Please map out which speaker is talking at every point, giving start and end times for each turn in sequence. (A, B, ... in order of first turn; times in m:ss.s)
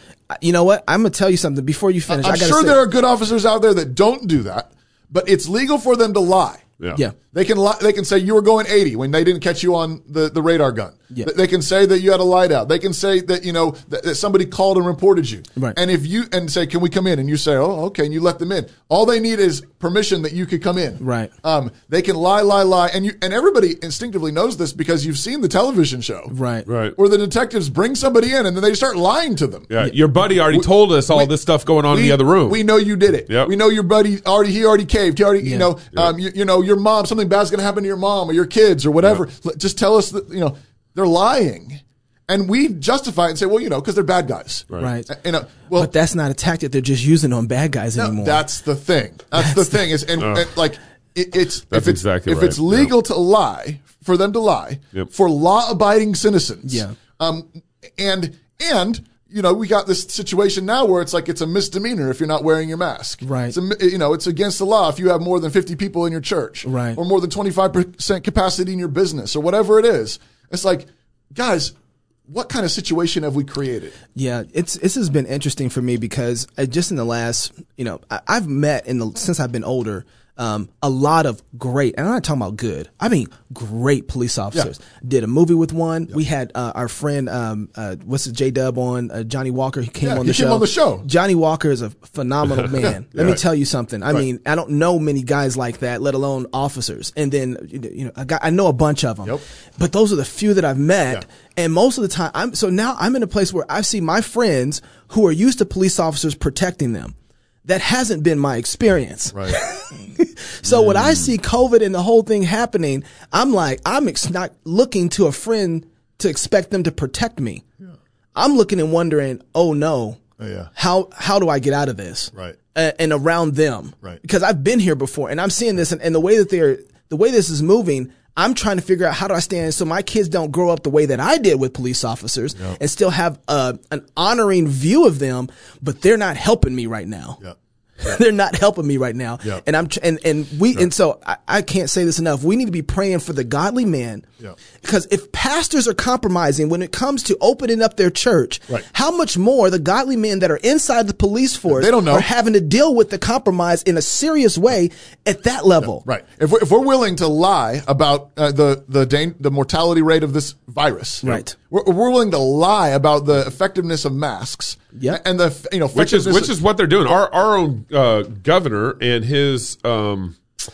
0:00.3-0:02.8 A
0:02.1-0:06.7 B
0:07.3-0:26.3 B
0:21.0-0:21.3 A
0:26.3-0:26.7 A
0:26.7-0:27.0 C
0:27.0-0:29.7 B
0:29.7-0:32.6 C
0:30.5-0:31.3 B
0:31.9-0:45.9 B
0:35.4-0:35.7 A
0:44.8-0:45.1 A
0:45.8-0:48.4 A
0:48.0-1:11.8 B
0:49.4-0:49.8 A
0:50.2-0:50.5 C
0:51.7-0:52.9 C
0:56.6-0:57.0 A
1:03.2-1:03.6 A
1:06.6-1:07.0 A
1:12.3-1:14.0 B
1:14.2-1:47.2 A
1:30.0-1:31.1 B
1:32.8-1:33.4 B
1:47.7-1:57.6 A
1:49.3-1:49.6 B
1:50.7-1:51.3 C
1:58.4-2:00.2 A
2:00.4-2:00.7 B
2:00.8-2:17.4 A
2:17.4-2:18.2 B
2:18.0-2:24.2 A
2:24.8-2:36.0 A
2:31.7-2:32.3 B
2:35.8-2:46.5 B
2:41.2-2:41.6 A
2:45.0-2:45.2 A
2:45.9-2:50.4 C